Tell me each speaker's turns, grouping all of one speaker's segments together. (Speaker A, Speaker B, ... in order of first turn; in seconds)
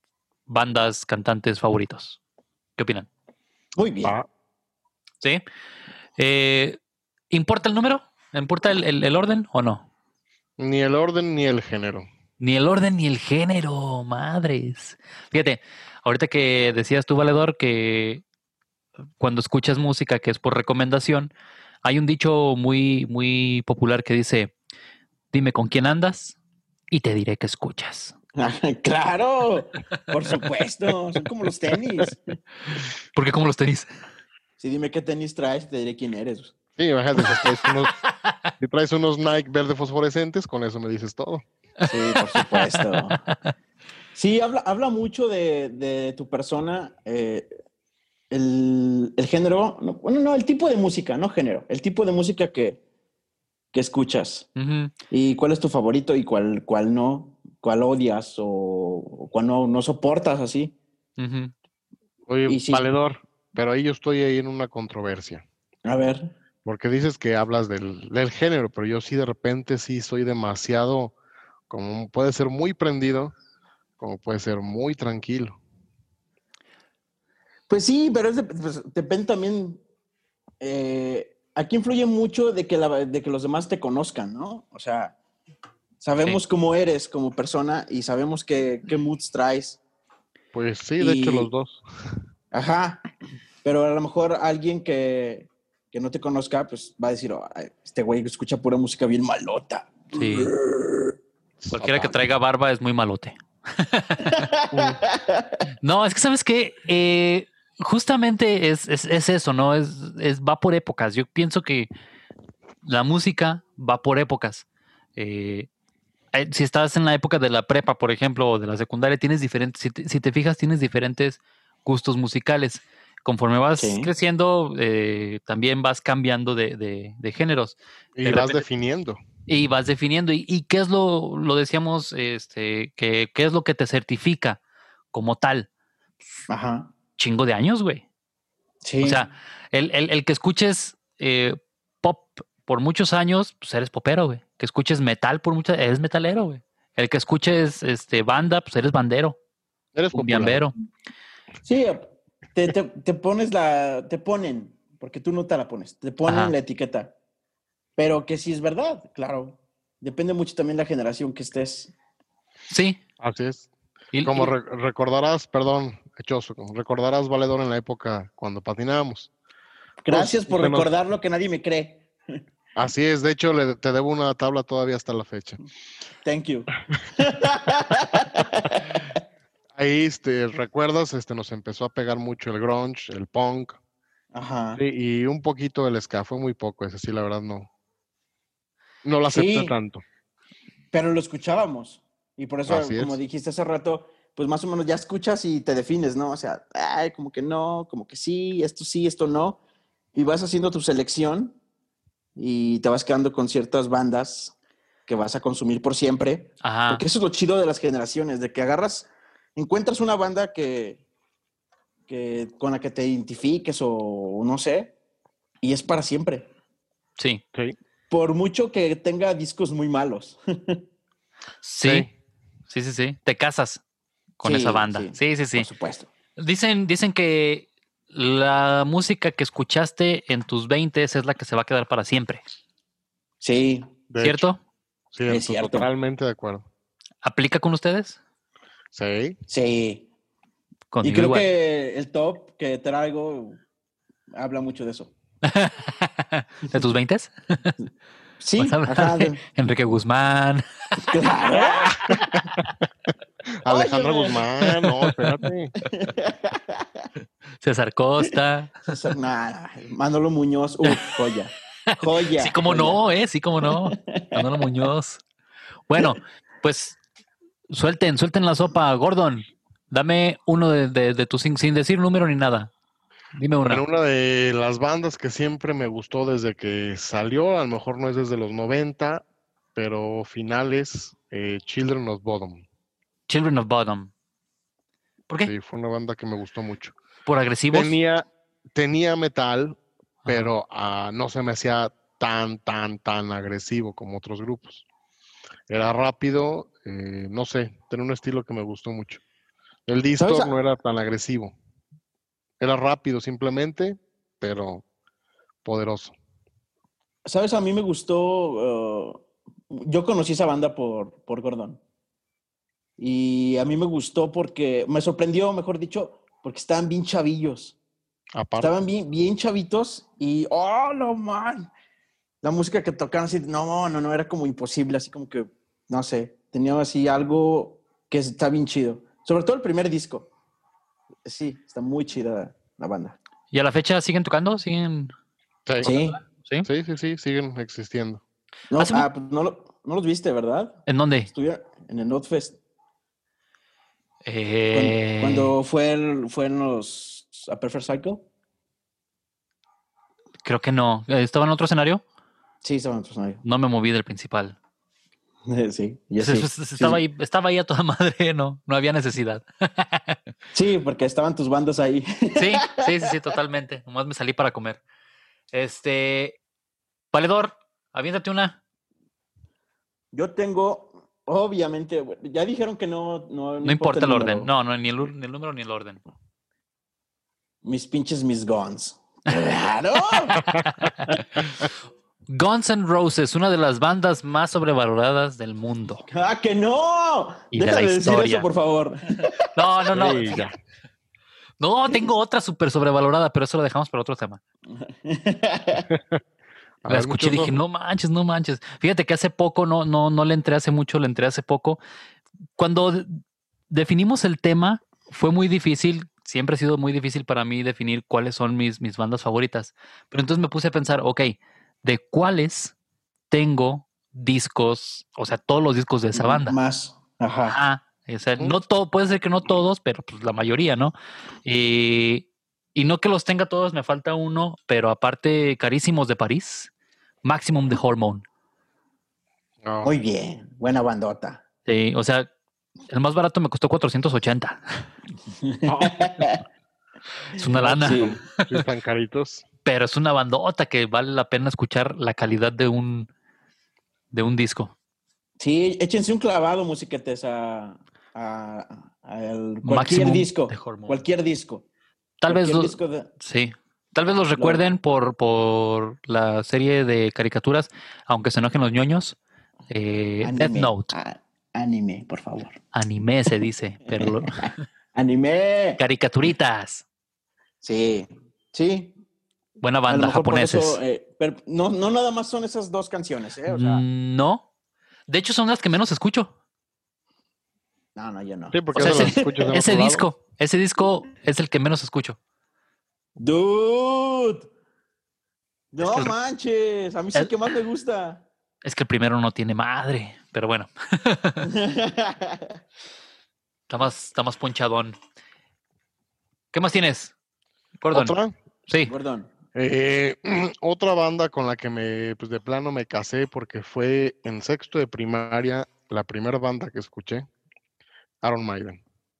Speaker A: 0.5-2.2, 2.8-3.1, 6.2-6.8, 7.3-9.9, 12.4-18.2, 19.2-21.3, 21.8-24.5, 25.3-26.4, 26.9-28.1, 33.1-33.9, 37.2-38.3, 41.8-43.3, 54.6-54.9, 61.2-61.5, 100.1-100.5, 101.7-105.0, 105.8-111.9, 112.8-114.6, 115.2-115.7, 116.3-128.6, 129.5-134.6, 135.1-135.7, 137.2-138.1, 139.0-149.4, 150.1-150.7, 156.2-156.5, 162.7-163.0, 164.1-164.5, 206.6-207.0, 221.6-222.1, 222.7-223.8, 224.4-225.7, 226.4-232.4, 234.2-234.6, 237.2-238.2, 240.9-241.5, 245.4-247.7, 248.6-250.6, 254.8-255.2, 257.6-258.8, 261.9-265.2, 265.9-267.0, 267.7-272.7, 273.3-273.8, 283.3-284.1, 287.2-287.9, 290.2-290.5, 333.5-335.1, 335.8-336.7, 338.8-339.1, 340.9-341.3, 344.2-345.5, 350.4-352.0, 353.4-354.6, 356.2-360.2, 362.4-364.8, 365.5-366.4, 367.1-368.6, 373.6-376.0, 380.8-381.2, 382.3-386.0, 387.5-388.5, 389.5-390.4, 391.6-394.4, 396.9-401.8, 402.6-412.7, 413.3-416.6, 417.5-426.7, 427.2-428.2, 431.6-432.3, 432.9-434.8, 437.4-438.6, 439.6-443.1, 444.1-444.7, 449.6-451.0, 452.2-459.2, 459.7-460.9, 462.7-464.5, 465.8-466.8, 469.6-470.8, 473.4-474.4, 475.1-476.3, 478.7-482.2, 485.8-486.1, 488.6-491.5, 493.7-495.0, 496.5-497.1, 497.8-498.1, 498.7-498.9
Speaker B: 3.8-4.2, 28.4-32.4, 34.6-36.5, 41.9-43.2, 44.1-47.5, 48.3-52.8, 53.7-54.5, 55.1-60.8, 62.5-62.9, 65.8-66.3, 77.7-79.8, 80.6-85.2, 86.0-89.8, 91.0-91.5, 92.5-93.0, 93.6-101.2, 104.2-105.6, 123.8-124.1, 136.5-136.9, 138.8-139.2, 151.6-157.1, 158.0-161.9, 170.0-172.1, 176.2-179.1, 184.3-184.8, 189.3-189.7, 190.9-199.6, 200.1-201.6, 202.3-204.5, 205.1-211.0, 212.1-214.9, 215.6-216.5, 218.1-220.8, 224.4-226.1, 233.4-233.9, 235.3-235.9, 239.5-240.1, 241.0-243.6, 244.3-245.1, 248.4-249.4, 251.0-252.2, 253.7-254.4, 255.8-257.1, 258.8-263.0, 263.6-264.4, 300.2-300.5, 307.2-311.8, 313.0-317.8, 318.6-321.7, 322.4-330.3, 331.2-333.2, 335.8-336.2, 338.7-342.6, 344.7-348.3, 352.6-353.4, 355.5-357.0, 360.5-362.9, 370.1-374.5, 377.6-380.4, 386.1-389.4, 394.7-395.9, 416.1-417.6, 429.8-431.4, 435.4-436.4, 437.6-438.2, 445.4-451.6, 452.3-453.1, 454.4-454.6, 460.2-462.6, 463.9-465.8, 467.6-468.9, 469.9-473.8, 477.9-479.5, 483.2-484.5, 485.7-488.2, 491.4-492.5, 498.8-499.3
Speaker C: 10.6-12.1, 36.8-38.0, 38.6-41.4, 62.3-65.4, 66.6-71.1, 71.7-73.3, 74.0-75.6, 90.5-91.8, 101.6-102.1, 128.2-129.2, 149.9-150.7, 163.2-163.7, 164.2-169.3, 170.1-170.9, 172.8-175.6, 179.7-183.8, 184.8-187.7, 189.0-190.0, 192.7-193.2, 221.8-222.1, 234.1-234.5, 235.1-236.7, 238.9-239.4, 253.6-255.7, 273.6-279.2, 279.7-282.6, 285.4-286.9, 287.7-294.8, 295.7-299.2, 299.9-301.5, 302.6-304.8, 305.6-306.1, 318.3-318.7, 336.6-338.2, 389.9-390.5, 395.9-396.2, 396.8-397.6, 429.6-429.9, 435.7-435.9, 437.6-439.4, 478.5-480.1, 497.9-498.3, 499.5-507.3, 508.2-508.8